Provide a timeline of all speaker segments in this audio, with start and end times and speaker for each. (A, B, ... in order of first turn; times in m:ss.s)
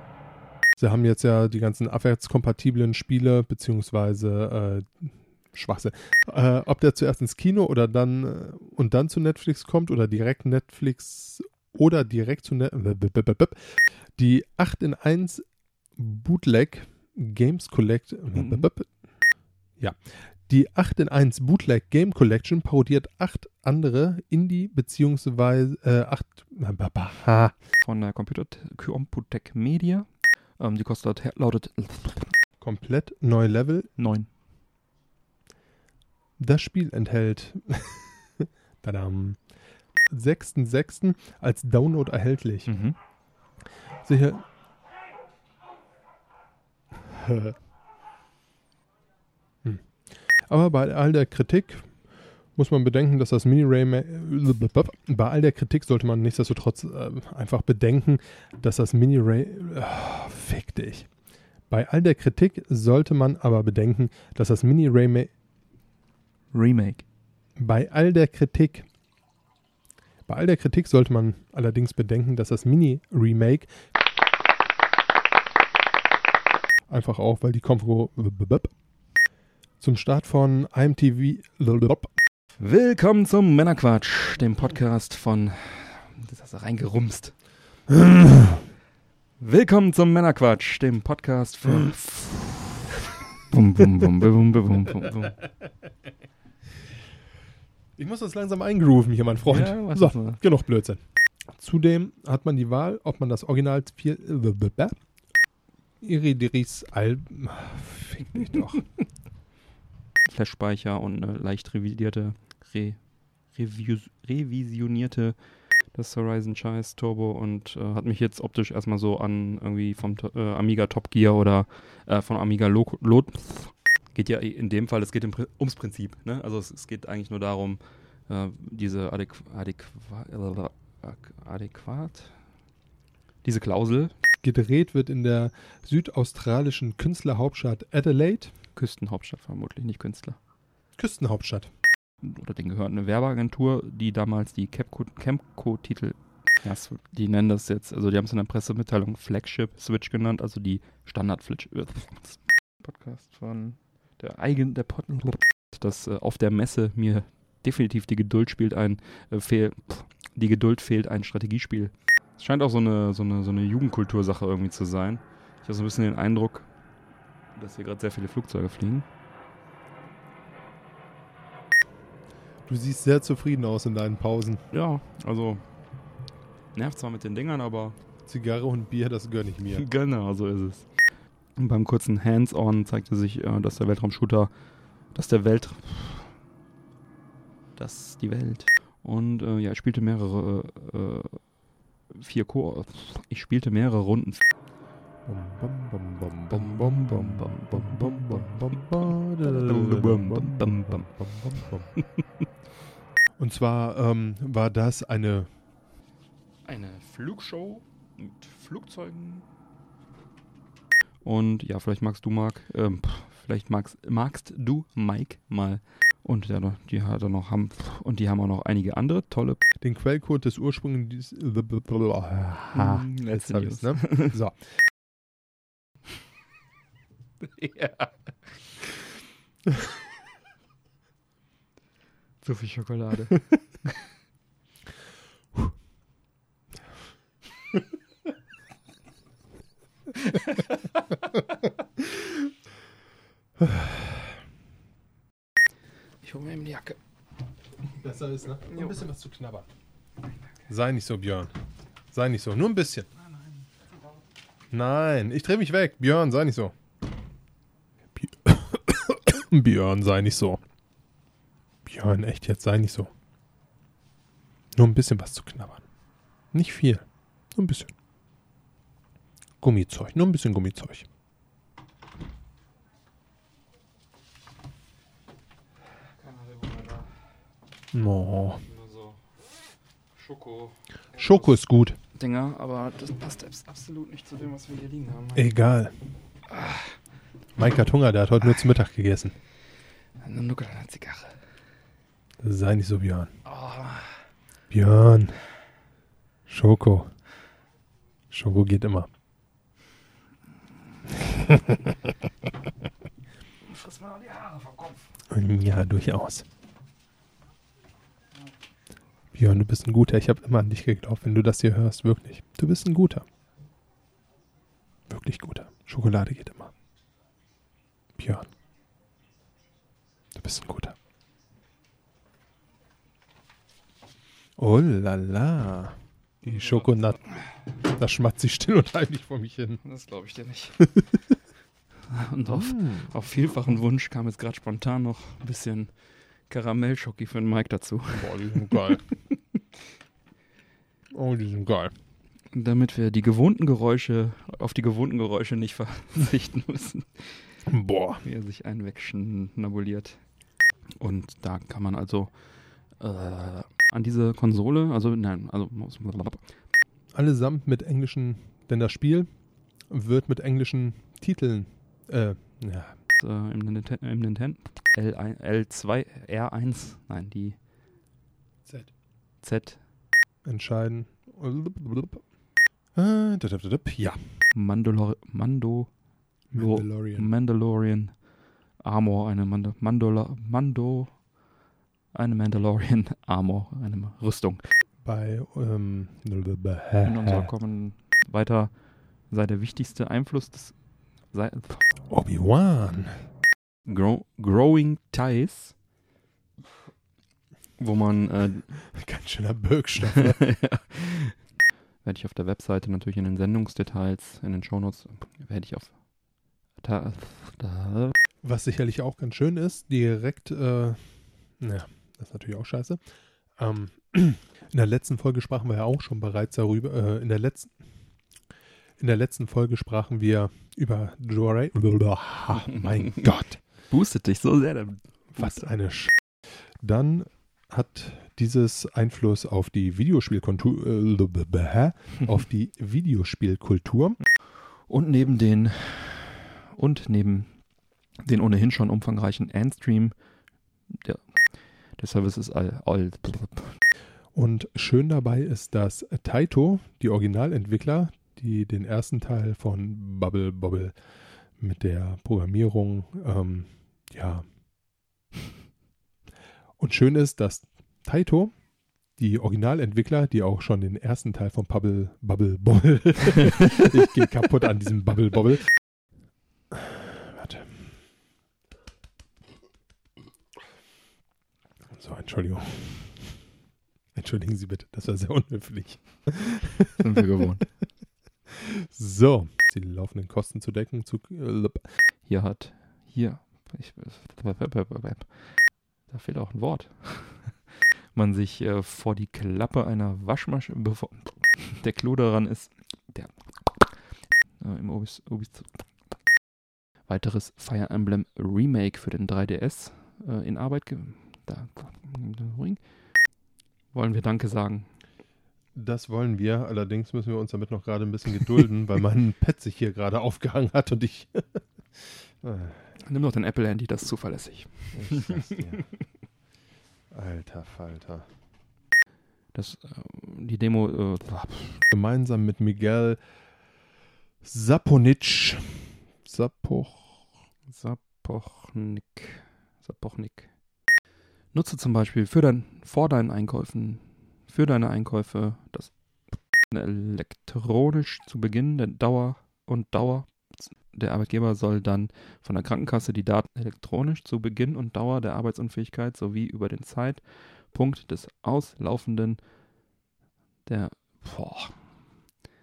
0:00.8-0:15.4 A
0:16.0-0:19.0 A
0:18.4-0:18.7 B
0:19.8-0:27.5 A
0:27.8-0:32.3 B
0:32.6-0:33.9 A
0:34.0-0:34.3 B
0:36.4-0:39.5 A
0:40.1-0:42.8 A
0:42.7-0:43.0 B
0:44.0-0:44.4 A
0:47.2-0:47.5 A
0:49.6-1:01.2 A
1:01.7-1:05.3 A
1:06.5-1:07.0 B
1:07.6-1:08.9 A
1:10.3-1:13.7 A
1:16.9-1:18.8 A
1:19.8-1:22.2 A
1:22.6-1:27.4 B
1:29.4-1:32.9 B
1:33.5-1:35.4 B
1:38.0-1:45.1 A
1:39.5-1:40.4 B
1:46.0-1:48.9 A
1:50.3-2:12.4 B
2:13.4-2:14.1 B
2:14.4-2:18.5 A
2:18.8-2:20.4 B
2:21.0-2:21.7 A
2:22.2-2:46.7 B
2:47.6-2:49.1 B
2:52.7-2:54.6 A
2:54.7-2:55.6 B
2:56.7-2:58.0 B
2:58.3-2:59.8 A
2:59.7-3:01.0 B
3:01.6-3:04.5 B
3:05.1-3:06.3 B
3:07.8-3:11.6 B
3:12.1-3:14.4 B
3:15.2-3:22.0 A
3:16.5-3:18.8 B
3:19.4-3:21.7 B
3:23.4-3:25.5 A
3:26.7-3:29.5 B
3:31.2-3:39.6 B
3:39.8-3:44.6 A
3:42.7-3:44.4 B
3:47.4-3:48.1 B
3:52.4-3:53.8 B
4:03.6-4:04.2 A
4:06.2-4:07.0 B
4:07.9-4:09.7 A
4:10.7-4:11.5 A
4:12.1-4:13.1 A
4:14.7-4:16.7 A
4:18.2-4:20.6 A
4:21.9-4:23.1 A
4:24.8-4:25.9 A
4:26.5-4:27.9 A
4:29.6-4:31.1 A
4:36.2-4:37.1 B
4:37.9-4:38.6 A
4:38.7-4:39.2 B
4:40.2-4:41.6 B
4:41.2-4:42.0 A
4:42.1-4:45.5 B
4:45.3-4:46.0 A
4:46.5-4:47.0 B
4:47.6-4:49.4 A
4:50.2-4:51.3 B
4:52.4-4:53.3 A
4:53.5-4:54.2 B
4:54.7-4:55.4 A
4:56.5-4:57.1 A
4:58.3-4:59.1 A
5:01.3-5:01.8 A
5:03.7-5:05.0 B
5:05.3-5:06.5 A
5:09.3-5:13.2 A
5:15.1-5:16.7 A
5:18.2-5:18.5 A
5:20.3-5:21.0 A
5:24.6-5:29.8 A
5:29.8-5:30.9 B
5:32.1-5:39.4 B
5:32.5-5:33.1 A
5:38.1-5:39.1 A
5:41.1-5:41.9 A
5:42.5-5:47.6 B
5:47.7-5:48.2 A
5:48.2-5:50.2 B
5:51.0-5:56.5 B
5:57.1-6:03.0 A
6:03.2-6:07.6 B
6:08.7-6:08.9 A
6:09.4-6:09.8 B
6:10.4-6:12.3 A
6:12.9-6:14.4 A
6:14.5-6:15.9 B
6:16.5-6:18.3 B
6:16.5-6:17.3 A
6:18.8-6:21.3 B
6:22.1-6:24.6 B
6:25.0-6:27.5 A
6:27.0-6:31.9 B
6:32.1-6:33.3 A
6:33.8-6:35.8 B
6:37.8-6:38.8 B
6:38.9-6:40.7 A
6:40.4-6:41.3 B
6:42.0-6:48.2 B
6:48.4-6:57.9 A
6:59.0-7:03.6 A
7:03.9-7:05.7 B
7:05.4-7:14.2 A
7:14.8-7:20.2 B
7:20.9-7:23.8 B
7:24.3-7:34.5 A
7:36.8-7:38.6 A
7:39.1-7:45.9 A
7:46.7-7:47.9 A
7:51.9-7:53.5 A
7:54.1-7:57.0 A
7:57.0-7:57.7 B
7:58.9-8:01.9 A
8:02.2-8:16.2 B
8:17.0-8:22.8 B
8:23.9-8:24.9 B
8:25.7-8:32.9 A
8:33.0-8:35.5 B
8:34.9-8:35.9 A
8:37.1-8:38.3 A
8:39.5-8:41.8 B
8:41.9-8:43.3 A
8:44.4-8:47.3 A
8:47.7-8:50.6 B
8:51.5-9:09.4 B
9:10.7-9:11.8 B